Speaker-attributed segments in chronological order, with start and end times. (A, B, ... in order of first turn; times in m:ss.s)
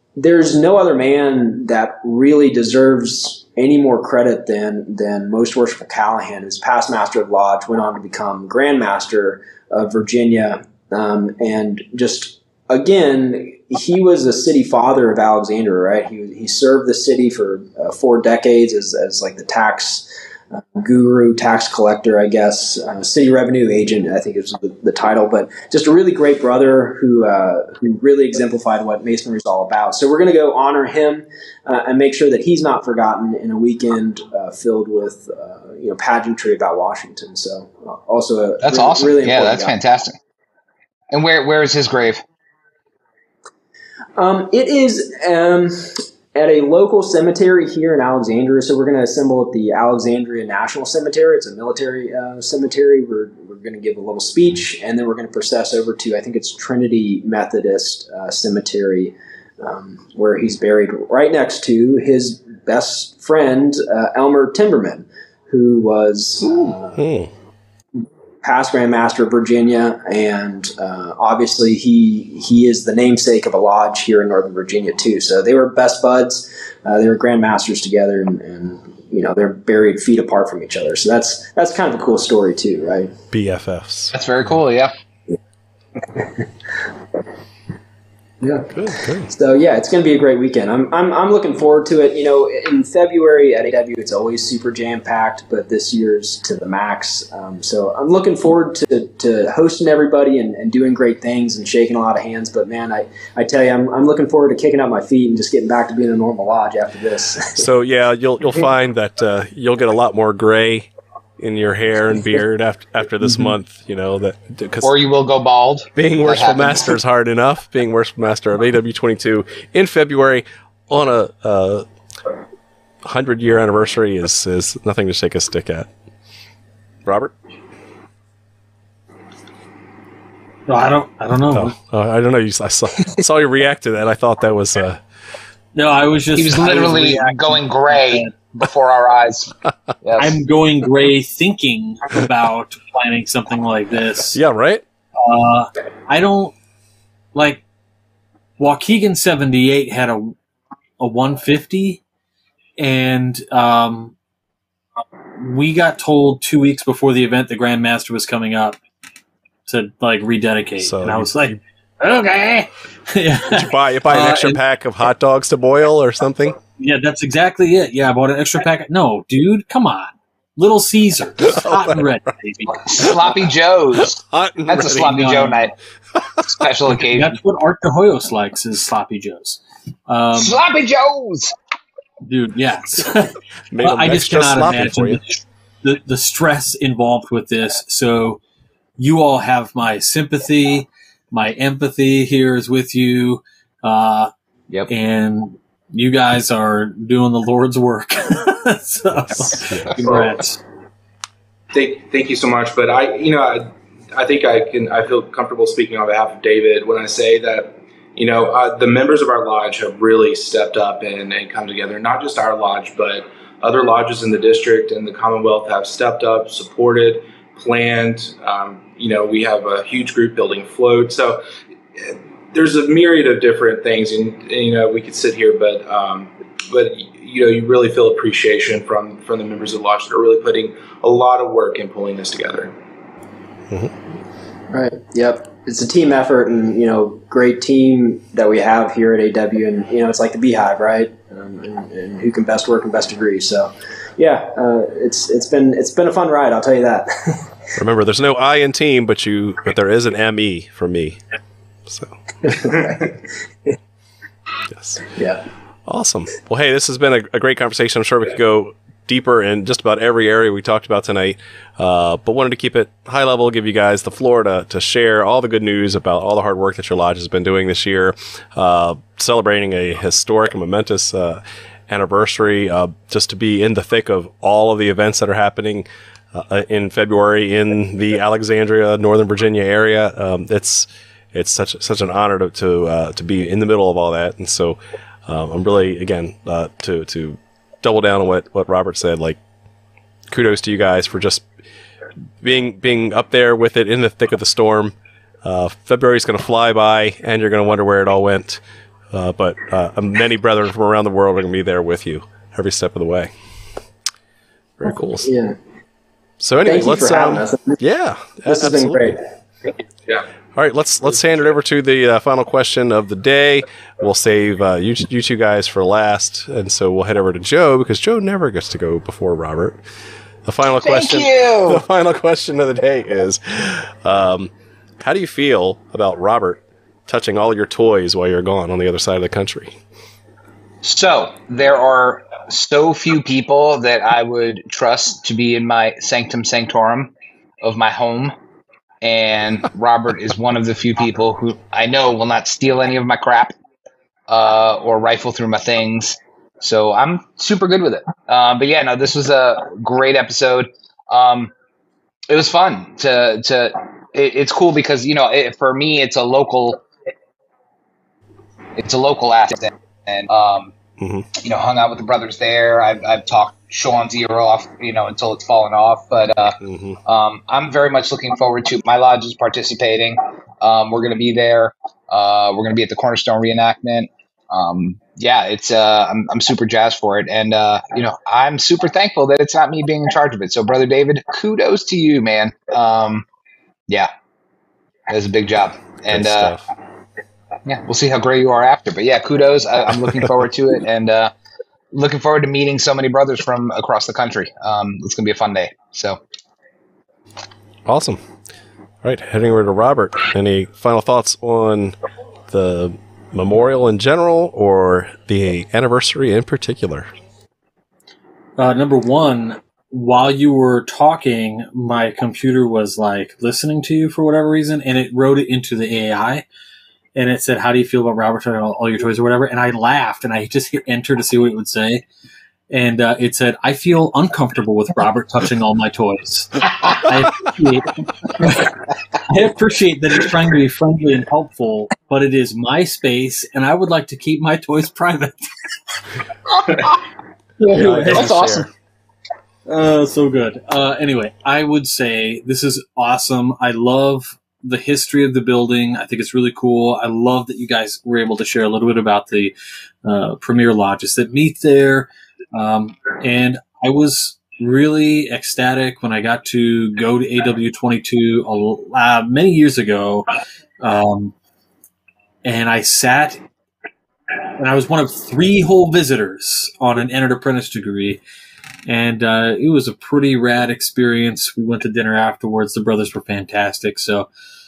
0:00.2-0:39.8 A
0:38.6-0:40.2 B
0:41.1-0:42.2 B
0:44.2-1:07.0 A
1:06.4-1:07.3 C
1:08.4-1:23.1 A
1:23.3-1:24.1 C
1:24.1-1:24.9 B
1:28.4-1:28.7 A
1:28.7-1:29.3 C
1:29.2-1:47.7 A
1:47.6-1:54.9 C
1:54.8-1:56.9 B
1:56.0-2:01.9 C
2:03.0-2:05.9 C
2:07.0-2:07.3 C
2:10.7-2:11.8 D
2:11.5-2:15.0 C
2:15.8-2:18.3 D
2:16.4-2:20.4 B
2:20.2-2:24.4 D
2:24.3-2:24.8 C
2:25.2-2:26.6 D
2:27.3-2:27.6 D
2:28.6-2:30.4 D
2:31.0-2:32.0 D
2:32.8-2:34.2 D
2:35.4-2:38.8 D
2:39.7-2:44.6 D
2:40.8-2:41.6 C
2:43.5-2:46.6 C
2:46.8-2:53.1 D
2:51.4-2:52.0 C
2:52.8-2:55.7 B
2:54.0-2:55.4 C
2:55.1-2:55.7 D
2:56.5-2:57.4 B
2:57.1-3:00.6 D
3:00.3-3:01.5 B
3:02.2-3:08.4 D
3:03.7-3:05.2 C
3:09.0-3:14.3 D
3:14.9-3:20.6 D
3:21.7-3:41.4 E
3:42.0-3:52.7 E
3:54.7-4:07.5 A
4:07.8-4:11.2 C
4:11.9-4:12.1 C
4:12.4-4:13.2 A
4:14.7-4:15.0 C
4:15.1-4:15.4 A
4:15.9-4:49.4 C
4:50.3-4:51.4 C
4:52.4-5:03.3 C
5:04.8-5:05.3 C
5:05.2-5:05.6 A
5:06.4-5:09.2 C
5:06.6-5:07.8 A
5:08.5-5:09.2 A
5:10.6-5:19.8 C
5:20.4-5:29.8 C
5:20.8-5:21.8 B
5:30.8-5:38.4 B
5:39.0-5:43.5 B
5:44.3-5:51.5 B
5:52.3-5:56.9 B
5:58.8-6:00.7 B
6:01.0-6:01.3 C
6:01.4-6:23.3 B
6:06.6-6:07.0 C
6:25.1-6:26.6 B
6:26.1-6:26.6 C
6:27.7-6:31.3 B
6:31.9-6:36.2 B
6:37.9-6:38.2 C
6:39.0-6:42.0 C
6:42.5-6:47.1 C
6:48.6-6:56.5 D
6:57.2-7:02.1 D
7:02.7-7:15.5 D
7:16.6-7:16.9 B
7:17.6-7:18.7 B
7:17.7-7:18.7 C
7:17.8-7:18.1 D
7:19.7-7:40.3 D
7:40.8-7:41.4 D
7:42.4-7:43.4 D
7:44.5-7:48.2 D
7:48.9-7:54.3 D